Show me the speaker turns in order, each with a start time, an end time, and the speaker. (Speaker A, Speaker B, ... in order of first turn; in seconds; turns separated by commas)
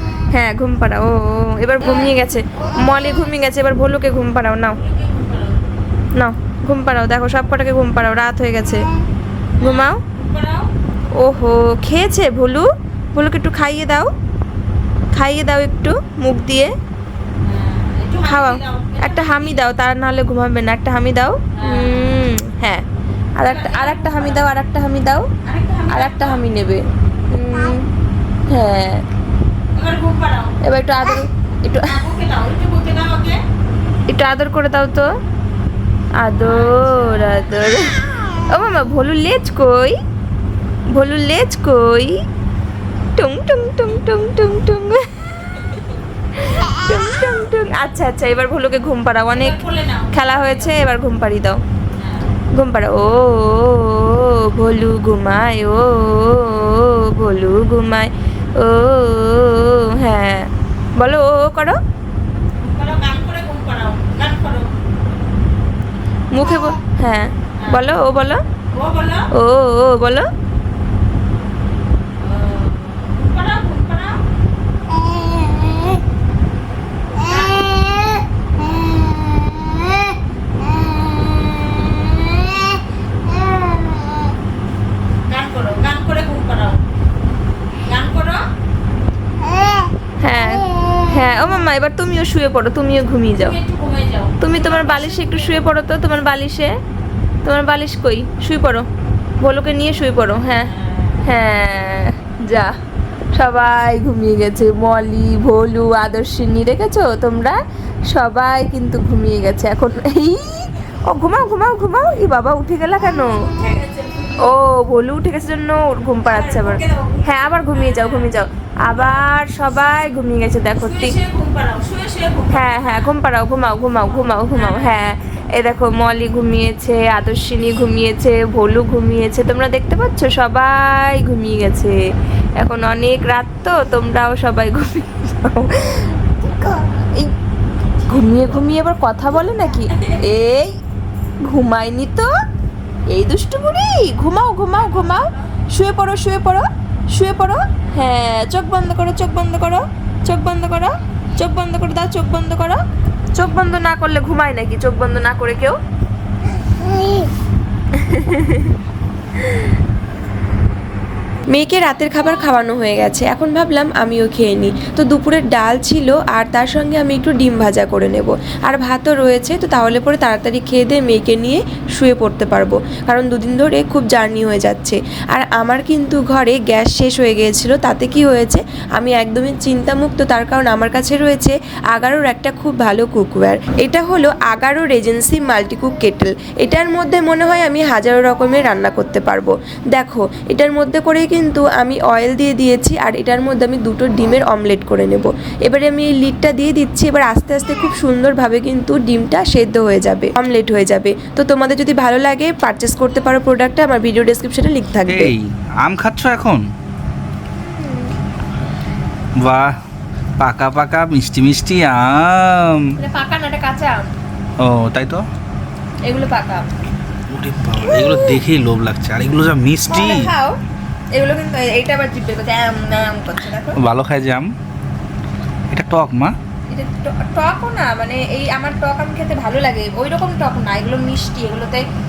Speaker A: 0.3-4.8, Speaker B: 1.8-2.1, Speaker B: 4.8-5.7, Speaker A: 6.2-8.8, Speaker B: 9.6-10.7, Speaker A: 9.6-10.0, Speaker A: 11.1-14.1, Speaker A: 15.1-16.7, Speaker B: 17.4-19.6, Speaker A: 18.2-22.8, Speaker B: 21.6-22.2, Speaker A: 23.4-25.3, Speaker B: 23.4-24.4, Speaker B: 25.4-26.4, Speaker A: 25.9-27.9, Speaker A: 28.5-29.0, Speaker B: 29.7-30.5, Speaker A: 30.6-32.0, Speaker B: 31.9-33.4, Speaker A: 34.1-35.1, Speaker A: 36.2-40.0, Speaker B: 36.4-37.5, Speaker A: 40.9-42.1, Speaker A: 43.1-45.6, Speaker A: 46.3-49.6, Speaker B: 49.3-50.8, Speaker A: 50.1-51.6, Speaker B: 51.9-52.3, Speaker A: 52.5-61.8, Speaker B: 62.6-64.7, Speaker A: 66.3-68.4, Speaker B: 68.7-69.2, Speaker A: 69.3-70.3, Speaker B: 72.2-74.2, Speaker B: 77.1-78.9, Speaker B: 85.3-86.8, Speaker B: 87.8-88.4, Speaker A: 90.2-93.6, Speaker B: 93.4-95.6, Speaker A: 94.4-96.7, Speaker A: 97.4-98.8, Speaker A: 99.4-100.7, Speaker B: 100.7-101.3, Speaker A: 101.2-102.7, Speaker A: 103.3-107.6, Speaker A: 108.1-113.4, Speaker B: 113.5-114.5, Speaker A: 114.4-121.2, Speaker B: 116.3-118.3, Speaker B: 118.9-119.2, Speaker B: 120.7-123.1, Speaker A: 122.5-132.0, Speaker B: 124.0-125.0, Speaker A: 132.6-137.3, Speaker A: 138.0-140.7, Speaker A: 141.5-142.3, Speaker A: 143.1-152.8, Speaker B: 144.7-145.5, Speaker A: 153.3-155.8, Speaker A: 157.9-158.8, Speaker A: 161.5-205.3, Speaker C: 205.1-206.6, Speaker A: 207.6-208.1, Speaker C: 209.4-209.7, Speaker C: 210.4-212.8, Speaker A: 213.0-214.1, Speaker C: 214.6-215.2, Speaker A: 216.1-216.7, Speaker C: 217.3-220.3, Speaker A: 217.8-218.4, Speaker A: 219.9-220.6, Speaker A: 221.1-223.8, Speaker C: 223.8-224.5, Speaker C: 225.7-226.3, Speaker A: 226.7-231.8